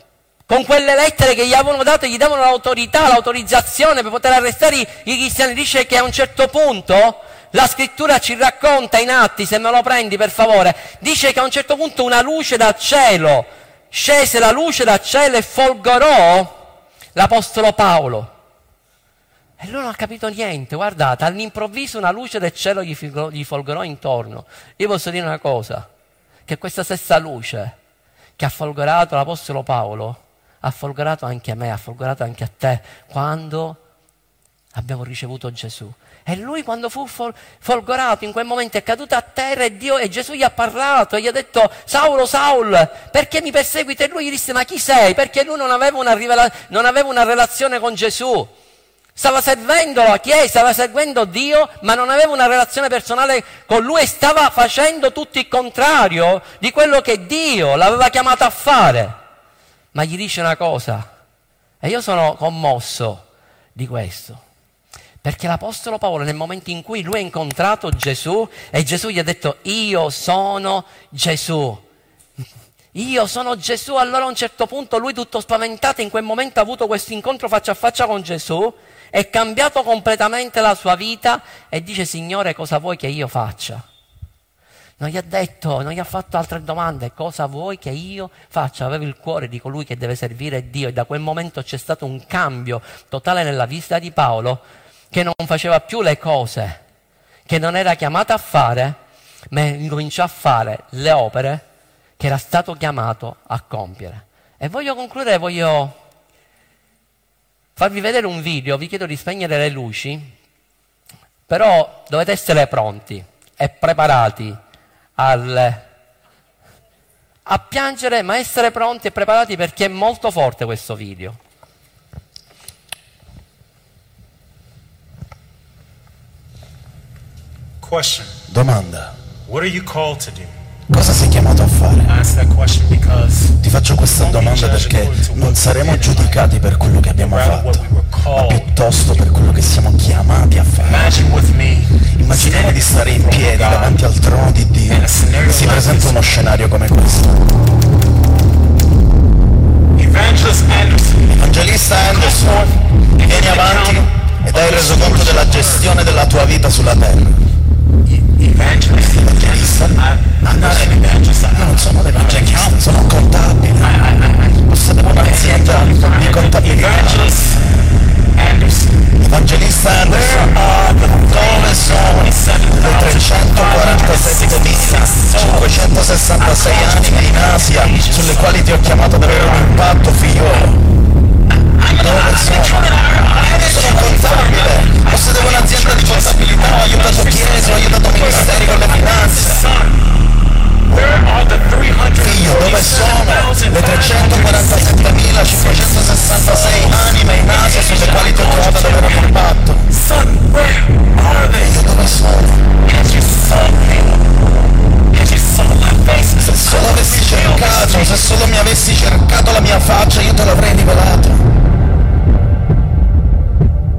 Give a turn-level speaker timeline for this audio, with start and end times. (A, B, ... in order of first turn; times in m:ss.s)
0:00.5-0:16.5 A
0:17.2-0:18.3 A
0:19.6-0:25.9 A
0:26.5-0:27.7 A
0:28.4-0:33.8 A
0:34.7-0:48.5 A
0:49.2-0:59.2 A
0:59.9-1:01.1 A
1:01.8-1:03.2 A
1:03.8-1:04.4 A
1:05.2-1:11.8 A
1:12.9-1:23.8 A
1:25.0-1:36.8 A
1:37.5-1:39.0 A
1:39.5-1:41.6 A
1:42.2-1:46.0 A
1:47.8-1:50.3 A
1:51.5-1:54.6 A
1:55.2-1:55.8 A
1:57.5-2:01.4 A
2:07.8-2:08.4 B
2:08.5-2:09.1 C
2:09.5-2:10.5 B
2:10.9-2:12.1 C
2:12.1-2:13.6 B
2:13.6-2:17.8 C
2:14.1-2:16.4 B
2:17.1-2:18.7 B
2:18.3-2:21.2 C
2:20.8-2:24.0 B
2:22.1-2:27.4 C
2:24.9-2:26.3 B
2:30.0-2:31.4 B
2:31.4-2:37.4 C
2:32.1-2:36.0 B
2:38.1-2:43.0 B
2:39.3-2:41.0 C
2:41.5-2:44.0 C
2:43.8-2:47.6 B
2:44.7-2:47.4 C
2:48.4-2:49.1 B
2:49.2-3:00.8 C
2:49.9-3:00.7 B
3:01.6-3:10.1 B
3:02.0-3:09.7 C
3:10.8-3:21.9 B
3:12.2-3:19.9 C
3:21.5-3:22.6 C
3:22.8-3:24.2 B
3:25.1-3:28.4 B
3:26.4-3:31.4 C